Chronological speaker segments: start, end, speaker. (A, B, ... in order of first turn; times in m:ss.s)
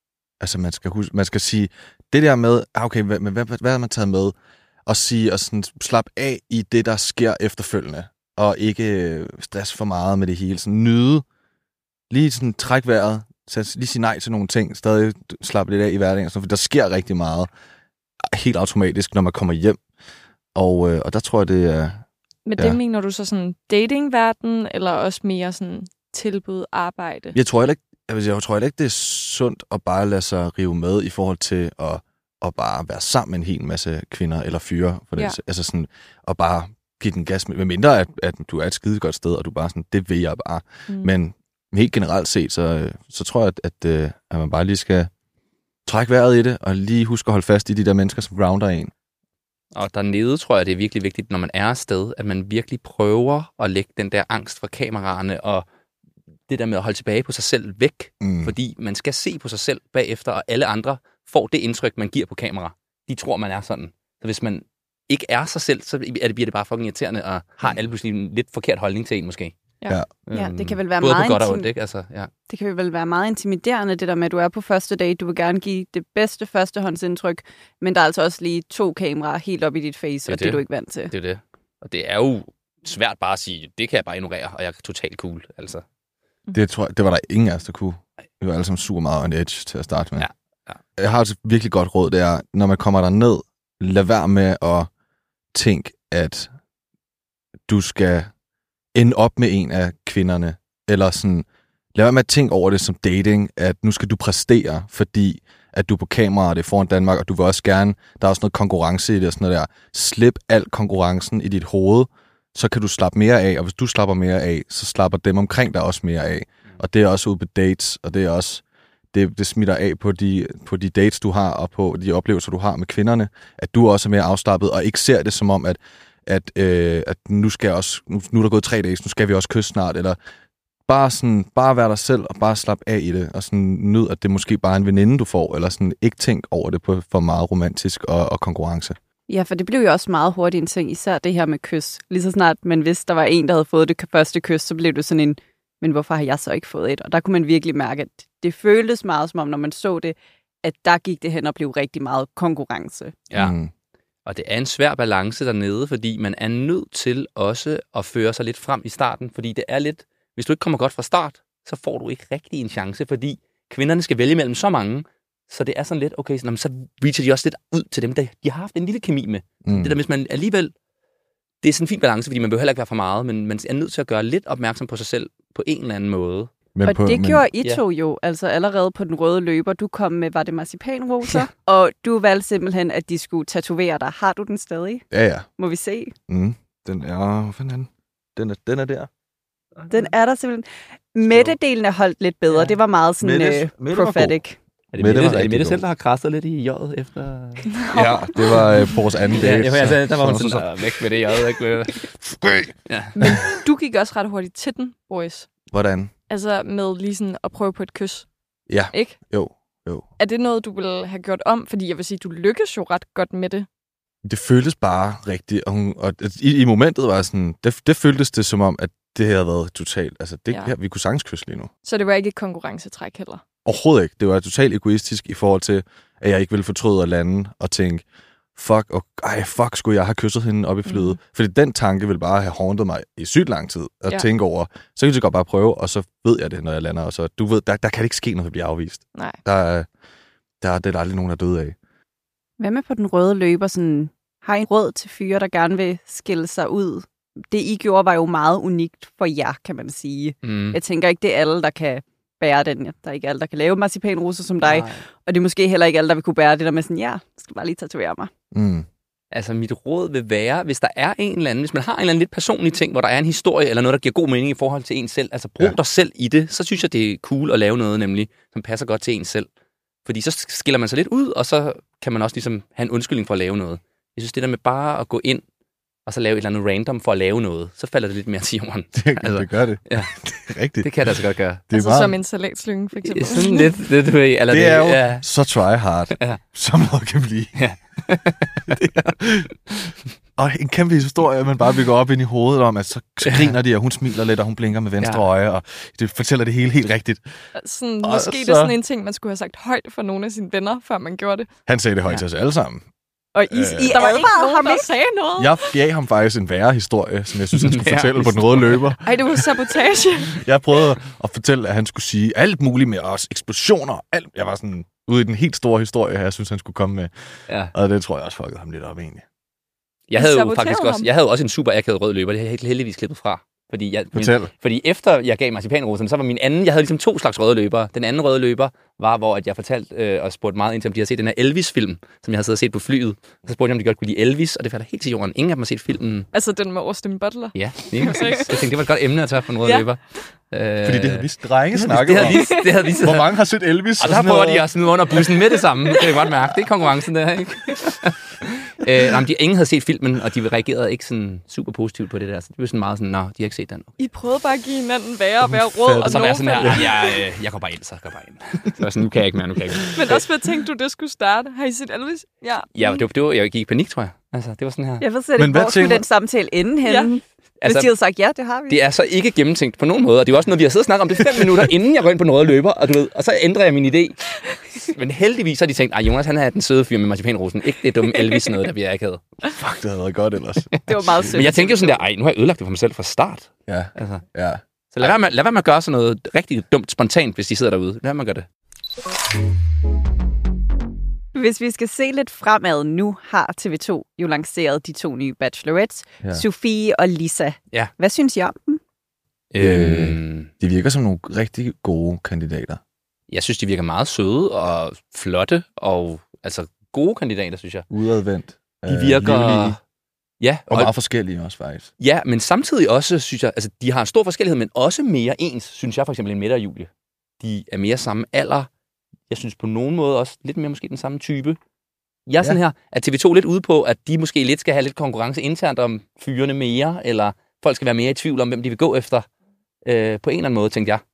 0:00.4-0:04.4 A
0:04.9-0:11.2 A
0:12.1-0:17.5 A
0:18.3-0:19.8 A
0:20.6-0:22.0 A
0:22.5-0:27.4 B
0:27.3-0:45.1 A
0:45.9-0:48.9 A
0:49.7-0:55.7 C
0:56.5-1:09.6 C
0:58.2-0:58.5 A
1:10.3-1:12.3 C
1:10.3-1:11.7 D
1:12.5-1:21.1 D
1:20.3-1:25.8 C
1:26.5-1:30.3 A
1:30.2-1:30.8 C
1:31.0-1:34.9 A
1:35.5-1:36.5 A
1:37.7-1:38.3 A
1:38.9-2:10.2 A
2:10.9-2:19.0 A
2:19.3-2:33.2 D
2:33.3-2:33.7 A
2:34.3-2:50.7 C
2:49.6-2:50.0 A
2:51.6-2:56.5 C
2:56.8-2:57.4 A
2:56.8-3:05.0 D
3:05.1-3:05.5 A
3:05.6-3:06.1 D
3:06.3-3:09.1 A
3:09.9-3:14.6 D
3:13.2-3:14.4 A
3:14.9-3:17.7 C
3:15.0-3:15.8 A
3:17.7-3:18.8 B
3:17.9-3:20.7 A
3:19.4-3:22.0 C
3:22.2-3:23.4 A
3:22.9-3:23.3 C
3:23.2-3:25.5 B
3:25.7-3:26.1 A
3:26.3-3:28.3 B
3:28.7-3:30.1 A
3:30.2-3:33.7 B
3:34.2-3:41.7 A
3:41.8-3:43.4 B
3:43.6-3:48.0 A
3:48.6-3:59.9 A
3:50.9-3:51.2 B
4:00.6-4:01.8 A
4:02.6-4:18.3 D
4:10.4-4:10.8 C
4:14.6-4:15.0 C
4:18.5-4:18.9 A
4:19.3-4:29.5 C
4:30.0-4:35.4 C
4:36.1-4:40.1 C
4:39.0-4:40.9 A
4:40.8-4:41.6 C
4:41.7-4:42.2 A
4:41.7-4:43.7 B
4:43.0-4:45.2 C
4:44.5-4:47.6 A
4:46.1-4:46.4 C
4:47.6-4:48.8 C
4:48.7-4:49.5 A
4:50.4-4:57.2 A
4:53.2-4:53.5 C
4:57.6-5:01.5 B
4:58.0-4:58.8 A
5:01.7-5:02.8 A
5:03.4-5:04.9 D
5:03.5-5:04.1 A
5:03.5-5:05.7 B
5:05.4-5:09.6 A
5:07.5-5:08.8 C
5:09.0-5:10.4 B
5:10.3-5:17.1 A
5:17.7-5:19.2 A
5:20.1-5:36.3 C
5:20.2-5:21.1 B
5:24.1-5:24.5 A
5:36.3-5:38.6 B
5:37.6-5:43.3 C
5:40.8-5:44.7 A
5:42.3-5:42.7 B
5:44.0-5:53.9 C
5:54.0-5:57.2 B
5:55.4-5:56.8 A
5:56.0-6:00.2 C
6:00.0-6:03.0 B
6:02.8-6:05.0 C
6:05.0-6:08.8 D
6:05.4-6:06.0 A
6:06.8-6:07.1 B
6:07.6-6:07.9 C
6:08.7-6:14.2 C
6:14.8-6:19.2 C
6:19.4-6:21.4 A
6:20.7-6:24.2 C
6:20.9-6:22.0 D
6:23.7-6:25.2 A
6:24.9-6:28.5 C
6:31.3-6:38.8 D
6:39.5-6:40.5 C
6:39.6-6:42.8 A
6:43.3-6:47.9 C
6:47.9-6:49.8 A
6:48.9-6:49.8 C
6:50.4-6:50.9 C
6:50.7-6:51.9 A
6:52.0-6:56.9 C
6:57.4-6:58.7 C
6:59.3-7:01.6 C
7:02.3-7:09.3 C
7:09.8-7:11.0 C